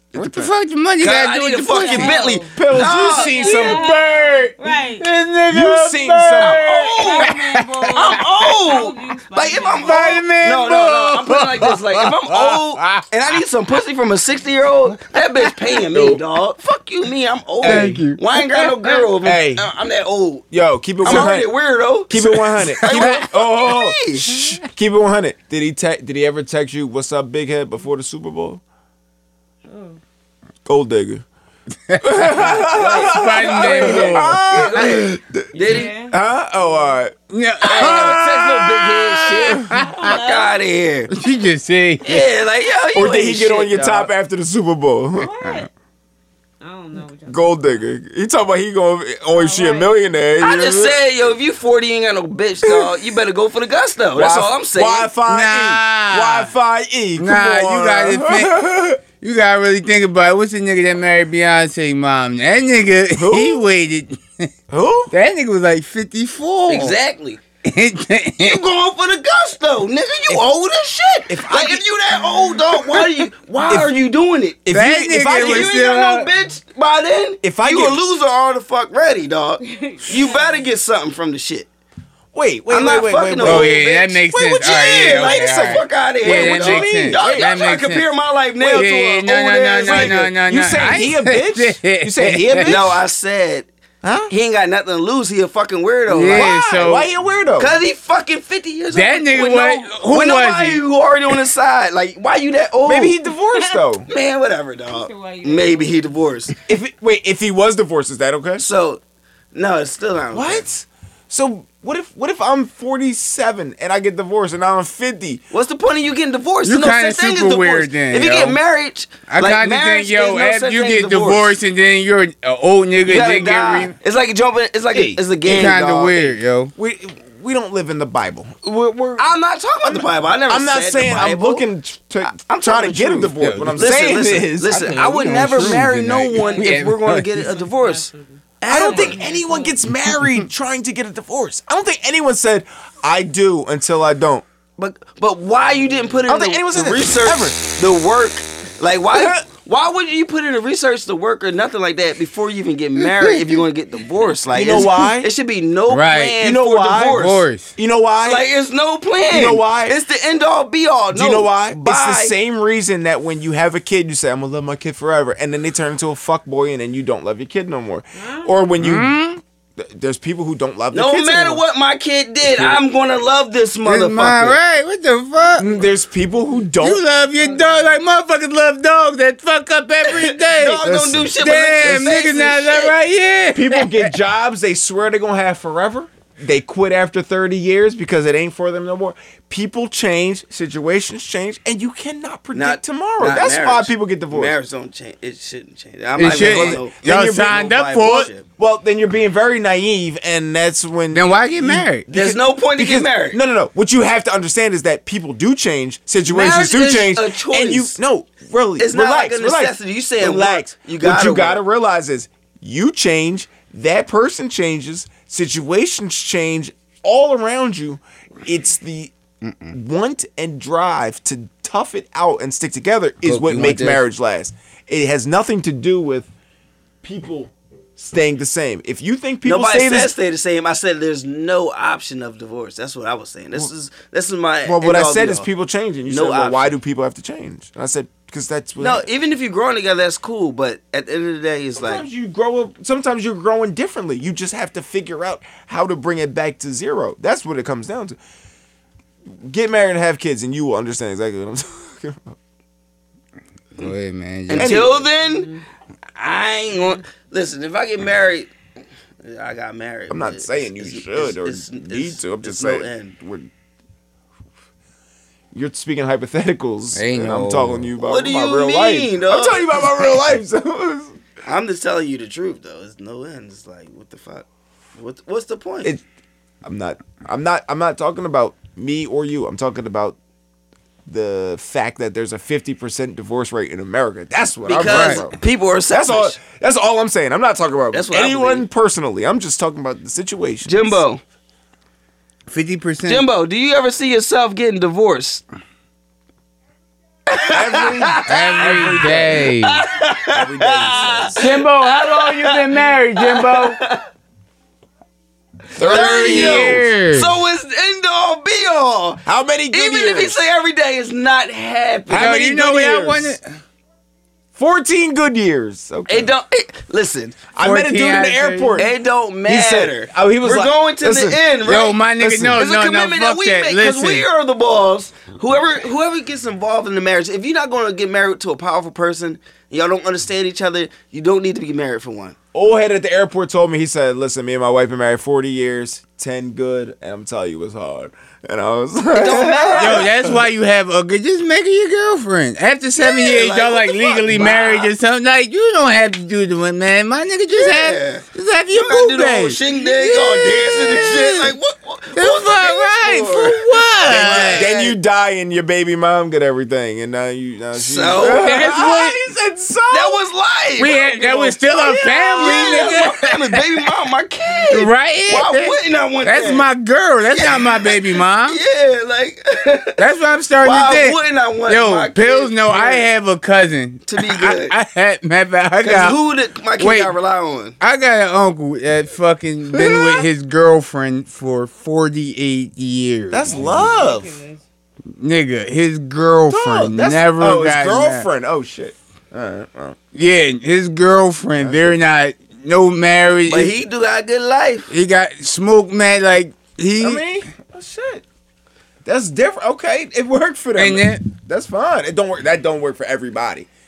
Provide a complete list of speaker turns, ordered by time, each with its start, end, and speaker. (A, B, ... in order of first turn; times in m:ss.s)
0:00.1-0:00.5 A
0:00.1-0:02.2 B
0:01.0-0:03.6 C
0:01.7-0:05.0 D
0:02.4-0:03.9 A
0:03.1-0:08.3 B
0:05.5-0:06.7 A
0:06.4-0:07.3 C
0:06.9-0:10.2 D
0:07.9-0:20.5 C
0:09.8-0:13.4 B
0:14.9-0:15.6 B
0:15.9-0:16.2 A
0:17.6-0:18.1 A
0:17.6-0:19.0 B
0:19.2-0:19.7 A
0:20.5-0:21.5 A
0:21.0-0:24.3 C
0:22.1-0:28.6 A
0:22.9-0:23.2 B
0:24.3-0:24.6 B
0:29.7-0:30.0 D
0:30.6-0:31.2 A
0:31.9-0:34.4 B
0:32.0-0:37.1 A
0:32.6-0:36.0 C
0:35.6-0:37.0 D
0:37.3-0:40.2 B
0:37.6-0:41.1 C
0:37.7-0:38.4 A
0:39.7-0:40.7 D
0:41.1-0:42.3 B
0:42.0-0:44.1 C
0:42.9-0:45.3 A
0:45.2-0:45.7 D
0:46.6-0:47.9 D
0:47.3-0:51.0 A
0:49.3-0:50.0 D
0:50.4-0:55.1 C
0:54.2-0:59.0 A
0:55.3-0:56.5 B
0:57.2-1:04.5 B
1:03.2-1:03.6 A
1:04.7-1:05.1 A
1:05.1-1:07.0 B
1:06.7-1:07.4 C
1:07.6-1:08.6 B
1:08.4-1:14.6 C
1:11.3-1:13.9 A
1:14.6-1:15.8 A
1:14.7-1:16.3 B
1:15.2-1:21.7 C
1:17.4-1:18.0 A
1:19.6-1:20.7 D
1:22.3-1:27.8 A
1:22.7-1:30.3 C
1:23.4-1:28.1 B
1:28.6-1:29.0 A
1:28.6-1:32.8 B
1:29.8-1:33.0 A
1:32.6-1:33.7 C
1:34.0-1:34.3 A
1:34.3-1:36.5 C
1:36.1-1:37.1 B
1:36.3-1:37.8 A
1:37.6-1:43.2 C
1:38.9-1:40.8 B
1:42.8-1:44.1 A
1:43.5-1:43.8 D
1:44.1-1:46.6 C
1:44.9-1:46.6 D
1:46.7-1:48.6 A
1:48.6-1:49.0 C
1:49.5-1:50.6 C
1:50.3-1:55.4 A
1:55.5-2:01.5 C
1:56.6-1:58.6 B
1:59.3-2:04.0 B
2:03.1-2:06.3 C
2:04.9-2:05.2 A
2:05.4-2:06.7 B
2:06.8-2:15.9 A
2:09.2-2:11.7 C
2:12.2-2:19.3 C
2:13.4-2:17.5 B
2:16.4-2:19.8 D
2:18.7-2:24.4 A
2:20.0-2:20.5 B
2:24.8-2:37.4 C
2:25.8-2:26.2 D
2:26.3-2:27.6 A
2:29.1-2:29.4 A
2:33.2-2:33.5 B
2:34.5-2:35.3 A
2:35.9-2:36.4 B
2:36.4-2:38.4 A
2:37.1-2:37.7 B
2:38.2-2:42.3 C
2:39.3-2:40.0 A
2:41.1-2:51.6 A
2:48.2-2:48.7 D
2:48.8-2:49.4 B
2:50.9-2:54.6 C
2:53.8-2:55.7 B
2:55.6-2:57.0 A
2:56.8-3:04.1 B
2:57.1-2:58.0 D
3:00.1-3:02.9 C
3:00.9-3:02.3 A
3:03.5-3:14.5 A
3:12.5-3:18.4 C
3:16.2-3:18.3 B
3:16.2-3:17.7 A
3:18.6-3:39.1 A
3:21.1-3:22.1 B
3:22.1-3:23.4 C
3:26.3-3:28.0 C
3:28.8-3:31.6 C
3:39.4-3:39.7 B
3:39.7-3:46.3 A
3:43.2-3:44.0 B
3:47.0-3:50.1 A
3:49.4-3:55.5 C
3:54.6-3:59.1 A
3:56.1-3:56.8 C
3:58.8-4:02.0 C
4:01.8-4:08.2 A
4:09.3-4:12.4 A
4:13.8-4:14.9 B
4:14.5-4:15.6 C
4:14.5-4:15.1 A
4:15.2-4:15.6 D
4:16.2-4:18.5 C
4:16.8-4:17.0 D
4:19.2-4:23.1 C
4:20.1-4:23.5 A
4:25.5-4:31.2 A
4:26.9-4:27.9 B
4:28.0-4:30.2 C
4:31.4-4:35.9 C
4:36.6-4:40.2 A
4:41.1-4:45.4 A
4:44.6-4:46.4 C
4:44.8-4:45.2 B
4:45.9-4:51.0 A
4:47.9-4:48.7 C
4:50.7-4:51.2 C
4:52.5-4:53.3 B
4:53.0-4:55.4 C
4:57.3-5:04.0 C
4:57.5-4:59.5 A
4:58.3-4:59.8 B
5:00.3-5:01.4 A
5:01.4-5:03.8 B
5:05.7-5:06.9 A
5:05.8-5:12.5 C
5:05.8-5:07.4 B
5:09.3-5:10.4 A
5:12.1-5:13.4 A
5:12.1-5:13.4 B
5:14.6-5:16.3 A
5:16.1-5:17.5 C
5:17.5-5:18.9 A
5:17.6-5:18.9 B
5:18.8-5:22.0 C
5:19.5-5:21.4 A
5:21.6-5:24.3 B
5:22.2-5:22.6 A
5:22.6-5:32.4 C
5:32.5-5:40.4 A
5:39.1-5:40.1 C
5:39.8-5:51.6 B
5:43.0-5:44.9 C
5:47.5-5:55.0 C
5:52.2-5:54.7 B
5:54.1-6:00.2 A
5:57.8-5:58.6 C
5:58.2-5:59.2 B
5:59.9-6:06.7 C
6:00.8-6:03.8 B
6:02.1-6:02.6 A
6:04.7-6:08.6 B
6:07.3-6:10.0 C
6:10.0-6:11.2 B
6:10.6-6:13.1 C
6:11.7-6:16.2 B
6:14.1-6:14.8 C
6:15.8-6:17.8 C
6:16.8-6:17.1 B
6:17.8-6:24.0 B
6:19.7-6:20.2 A
6:23.3-6:24.4 A
6:23.5-6:24.6 D
6:25.2-6:28.3 B
6:26.5-6:30.0 A
6:30.1-6:33.8 B
6:31.6-6:32.0 A
6:33.5-6:34.9 C
6:34.9-6:37.2 B
6:37.0-6:38.2 A
6:39.0-6:43.7 A
6:40.8-6:41.2 B